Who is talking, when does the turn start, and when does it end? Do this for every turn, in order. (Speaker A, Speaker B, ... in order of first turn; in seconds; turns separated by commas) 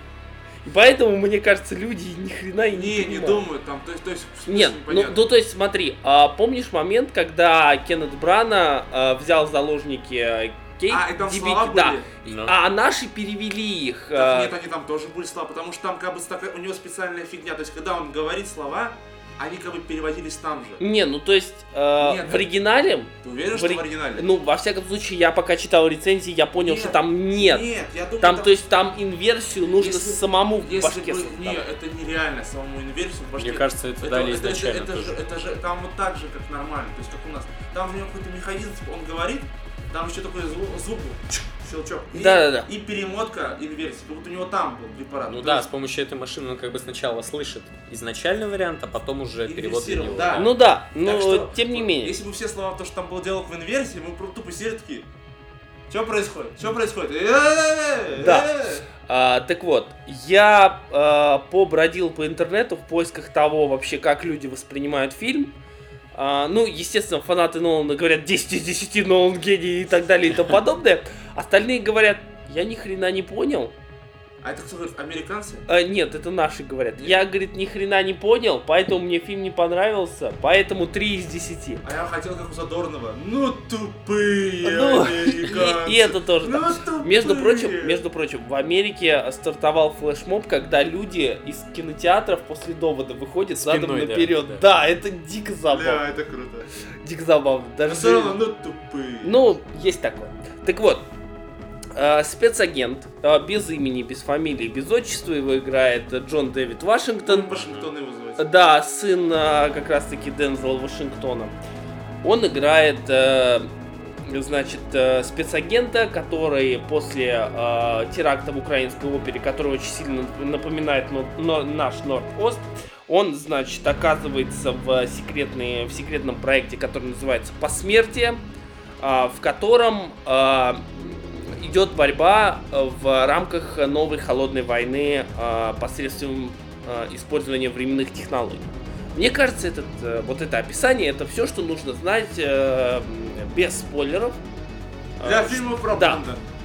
Speaker A: 0.6-3.5, Speaker B: 2.7-5.2, Speaker A: 4.5-14.5, Speaker B: 10.9-12.1, Speaker C: 12.2-12.6, Speaker B: 14.1-20.8, Speaker A: 20.8-27.7, Speaker B: 22.0-22.5, Speaker B: 23.2-24.3, Speaker B: 26.6-28.6, Speaker A: 28.2-31.6, Speaker B: 29.8-45.7, Speaker C: 33.4-35.2, Speaker A: 42.1-42.7, Speaker C: 45.3-50.5, Speaker B: 49.5-55.1, Speaker A: 50.4-52.1, Speaker B: 55.9-58.9, Speaker A: 58.2-65.5, Speaker A: 66.1-73.7, Speaker B: 74.4-75.7, Speaker A: 75.7-81.8, Speaker B: 81.8-88.0, Speaker A: 84.6-96.0, Speaker C: 93.6-94.6, Speaker B: 95.7-96.7, Speaker A: 97.0-98.4, Speaker B: 97.9-99.4, Speaker A: 99.2-101.1, Speaker A: 102.0-107.5, Speaker B: 107.2-108.5, Speaker A: 108.4-111.5, Speaker A: 112.2-113.7, Speaker A: 114.2-128.4, Speaker A: 129.0-144.4, Speaker A: 145.2-146.2, Speaker B: 145.2-146.4